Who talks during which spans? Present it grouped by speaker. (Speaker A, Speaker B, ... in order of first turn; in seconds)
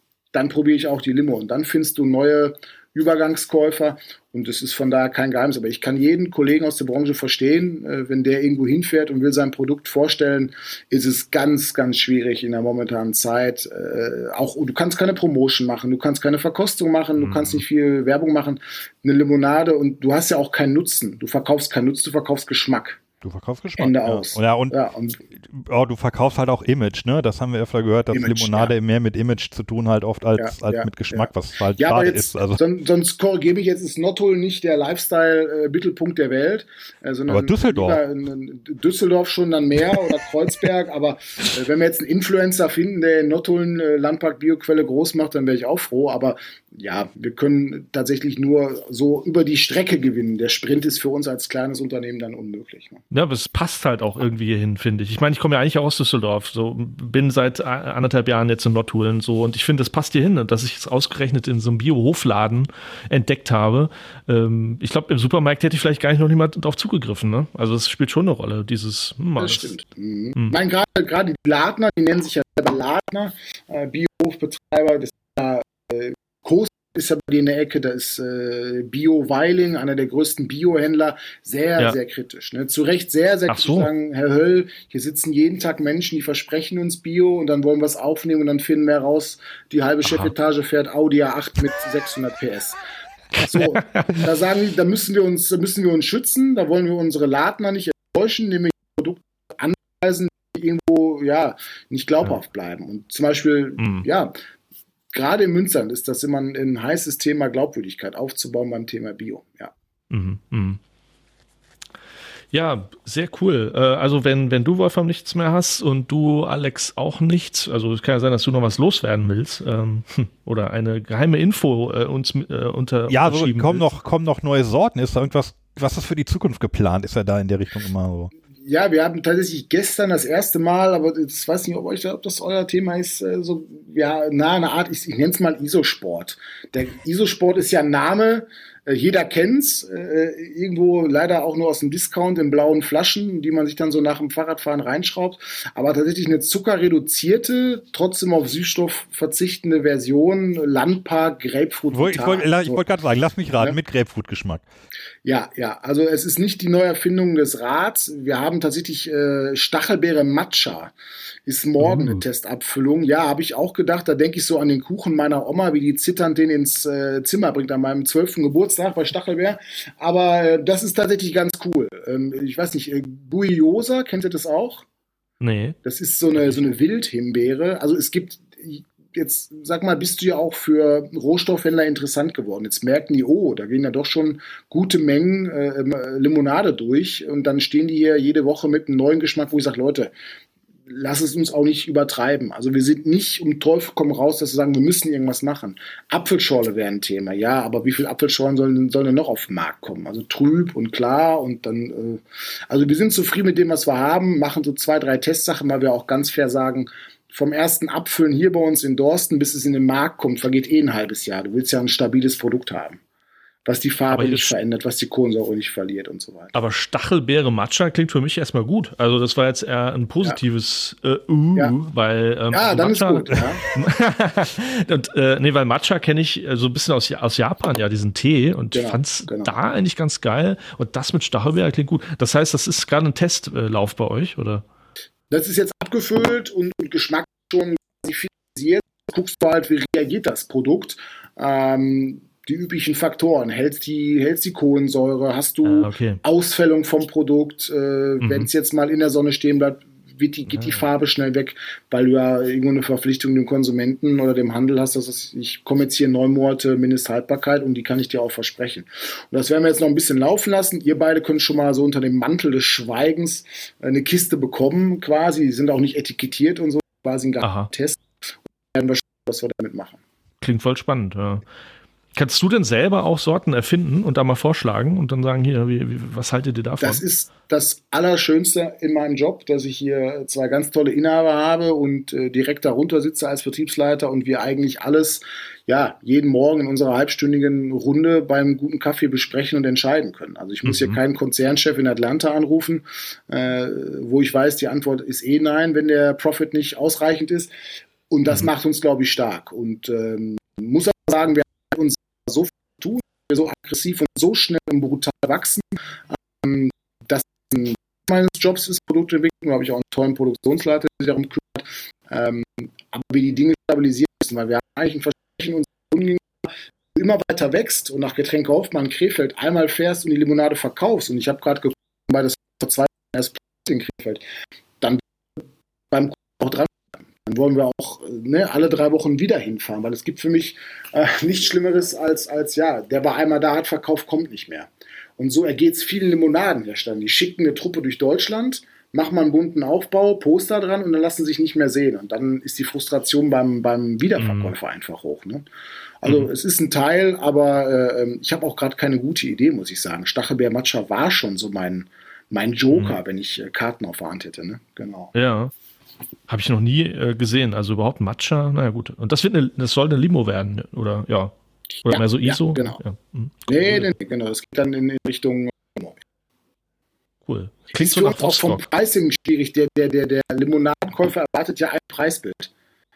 Speaker A: 0.3-23.0, 23.8-25.2, 28.1-28.7, 30.4-53.0, 69.4-92.8, 93.3-104.3, 105.1-109.7, 128.6-152.8, 155.2-160.9, 161.4-174.8, 175.8-190.1, 190.9-213.0, 213.7-216.6, 222.5-223.7, 228.7-229.5, 235.3-268.1, 268.7-270.0, 276.8-297.5, 298.1-305.7, 306.4-324.2, 324.8-345.4, 346.0-355.1, 361.8-362.8, 363.5-365.9, 367.7-372.5
Speaker B: 17.2-17.6, 53.1-69.7, 83.5-83.9, 90.0-90.3, 93.5-94.2, 103.8-104.1, 110.1-110.8, 112.5-123.9, 161.8-162.2, 175.4-175.8, 214.1-214.5, 216.5-234.6, 245.6-246.2, 248.2-248.5, 250.5-250.8, 267.4-267.7, 270.4-271.4, 272.1-277.0, 290.6-291.0, 344.2-344.6, 352.7-353.0, 355.1-355.5, 356.3-361.3, 361.9-363.9, 367.3-368.6
Speaker C: 23.2-24.7, 25.3-32.6, 37.3-38.0, 123.1-128.3, 151.9-154.6